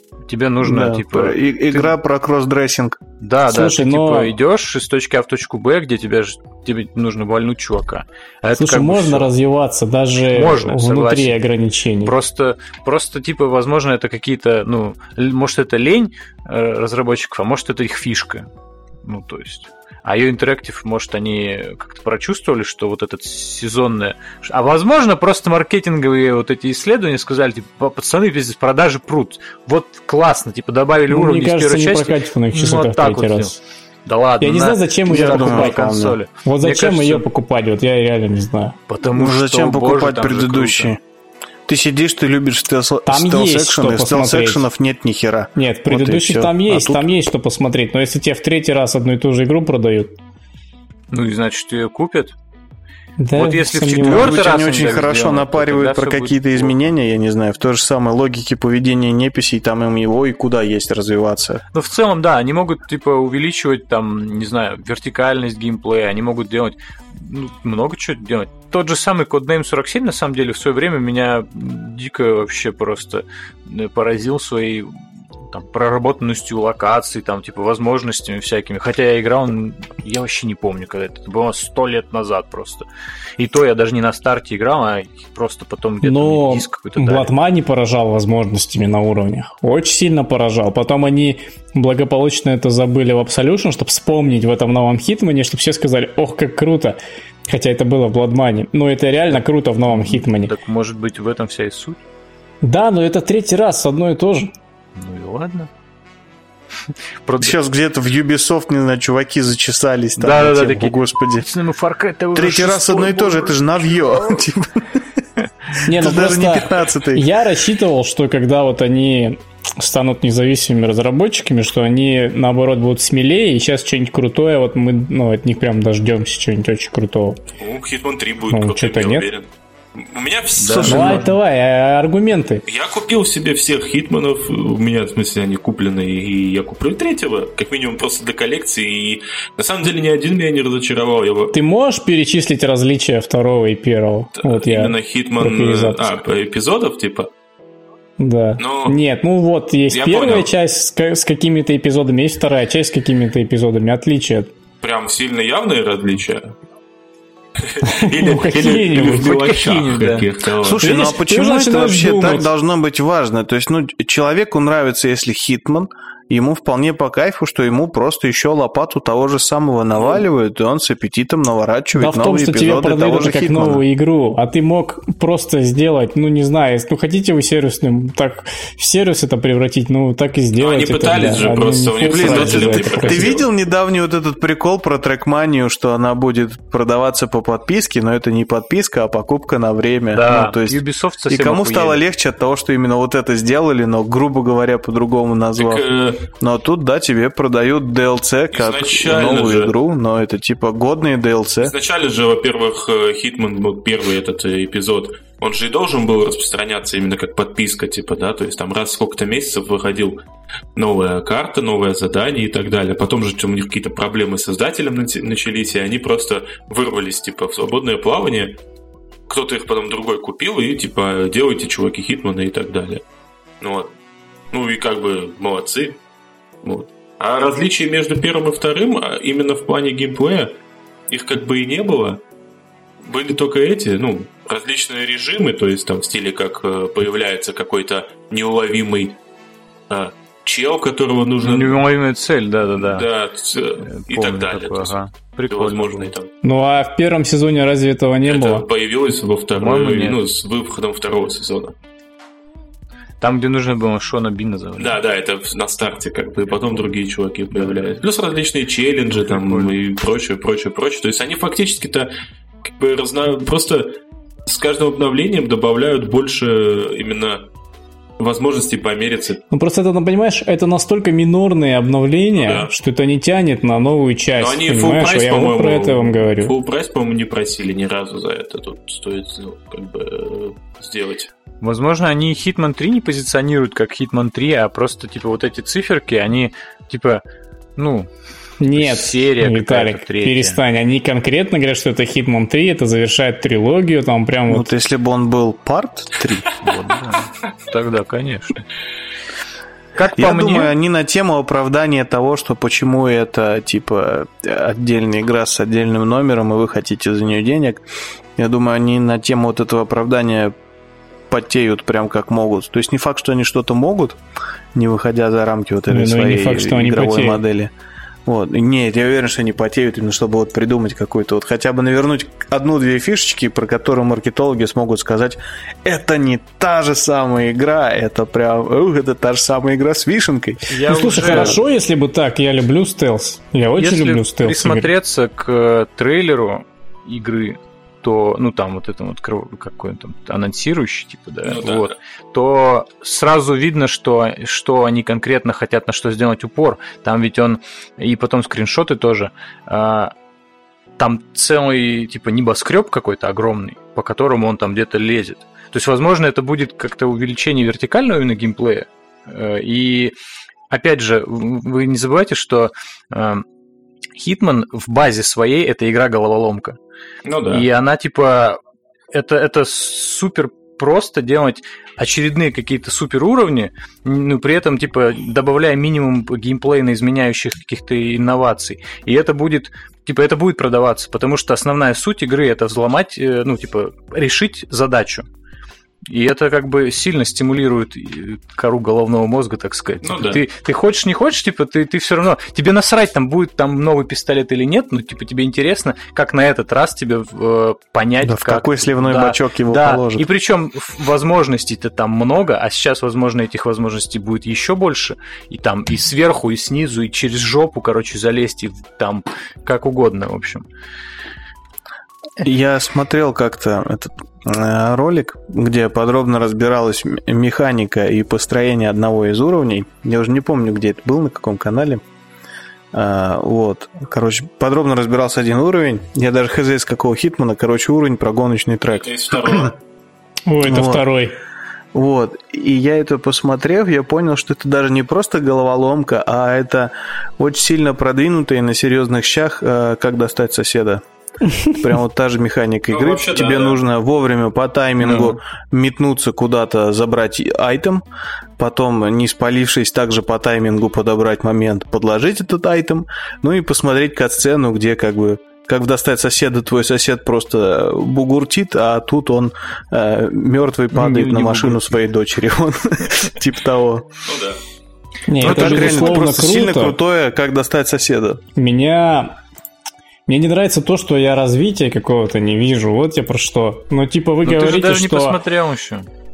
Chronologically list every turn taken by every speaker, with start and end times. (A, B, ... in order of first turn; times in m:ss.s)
0:00.3-0:02.0 A
0:00.6-0:03.0 B
0:03.2-0:09.3 A
0:03.5-0:04.4 C
0:08.5-0:12.1 C
0:10.2-0:11.4 A
0:12.0-0:18.5 A
0:19.0-0:37.2 A
0:31.1-0:33.5 C
0:34.4-0:35.8 C
0:35.1-0:36.2 B
0:36.4-0:38.8 C
0:38.9-0:40.9 A
0:39.1-0:41.0 B
0:41.7-0:47.0 B
0:43.0-0:44.7 C
0:45.6-0:50.1 C
0:51.1-0:52.3 A
0:53.2-0:54.5 C
0:53.4-0:56.9 A
0:53.9-1:01.6 B
1:01.7-1:14.9 A
1:15.5-1:22.8 A
1:23.4-1:27.3 A
1:26.0-1:37.0 C
1:37.5-1:40.5 C
1:39.9-1:42.0 A
1:42.6-1:44.5 C
1:44.9-1:45.7 A
1:46.8-1:47.6 A
1:47.4-1:51.4 B
1:50.2-1:54.4 A
1:52.3-1:55.0 B
1:55.7-1:57.2 B
1:55.8-2:07.4 C
2:07.6-2:11.2 D
2:08.5-2:09.3 C
2:10.6-2:11.3 A
2:10.7-2:11.2 B
2:10.8-2:12.6 C
2:12.7-2:21.6 D
2:21.5-2:26.1 C
2:24.4-2:27.3 D
2:28.2-2:34.5 C
2:28.6-2:29.0 D
2:29.9-2:30.5 D
2:34.8-2:36.5 D
2:37.6-2:40.9 D
2:37.8-2:39.3 C
2:38.6-2:40.3 A
2:40.6-2:53.8 B
2:40.7-2:42.5 C
2:50.0-2:50.2 D
2:52.0-3:03.4 C
3:00.6-3:03.4 D
3:02.0-3:15.8 B
3:10.1-3:12.0 A
3:15.6-3:16.2 D
3:16.4-3:21.7 B
3:18.5-3:19.7 D
3:21.6-3:30.2 D
3:30.7-3:38.6 D
3:39.3-3:43.0 D
3:43.6-3:43.9 D
3:44.5-3:46.0 D
3:46.6-3:50.5 D
3:51.1-3:52.2 D
3:53.0-3:59.2 D
3:59.9-4:01.8 D
4:01.4-4:03.0 A
4:02.8-4:06.3 D
4:03.8-4:06.1 A
4:06.4-4:08.6 C
4:08.2-4:11.7 D
4:09.6-4:10.2 A
4:13.2-4:15.0 A
4:14.8-4:22.1 D
4:19.2-4:19.7 A
4:22.6-4:27.4 D
4:28.2-4:29.4 D
4:29.5-4:36.5 C
4:32.3-4:32.7 D
4:34.4-4:41.3 D
4:41.6-4:47.2 A
4:47.8-4:48.1 A
4:48.6-4:54.7 C
4:48.7-4:50.6 A
4:54.5-4:56.5 B
4:56.6-4:58.6 A
4:59.9-5:00.7 A
5:00.2-5:07.8 B
5:08.4-5:10.5 B
5:11.3-5:14.2 B
5:14.7-5:17.7 B
5:15.9-5:17.4 C
5:18.2-5:31.5 B
5:30.7-5:31.6 A
5:30.9-5:34.9 C
5:33.8-5:50.1 A
5:41.4-5:42.0 D
5:51.0-6:00.1 A
6:00.7-6:03.4 A
6:04.2-6:06.8 A
6:07.2-6:07.7 D
6:07.5-6:08.6 A
6:09.1-6:25.3 A
6:26.1-6:50.6 A
6:30.0-6:30.4 D
6:38.2-6:40.2 B
6:52.4-7:02.0 B
7:02.9-7:09.7 B
7:08.9-7:09.8 D
7:10.5-7:11.3 C
7:10.6-7:11.0 B
7:11.9-7:21.0 B
7:21.7-7:28.0 B
7:22.9-7:23.8 D
7:25.0-7:25.4 A
7:28.6-7:44.0 B
7:40.9-7:41.9 A
7:44.2-7:44.6 D
7:45.3-7:47.0 C
7:45.4-7:46.2 A
7:45.4-7:48.4 B
7:48.5-7:49.3 C
7:50.3-7:55.4 C
7:54.4-7:56.1 A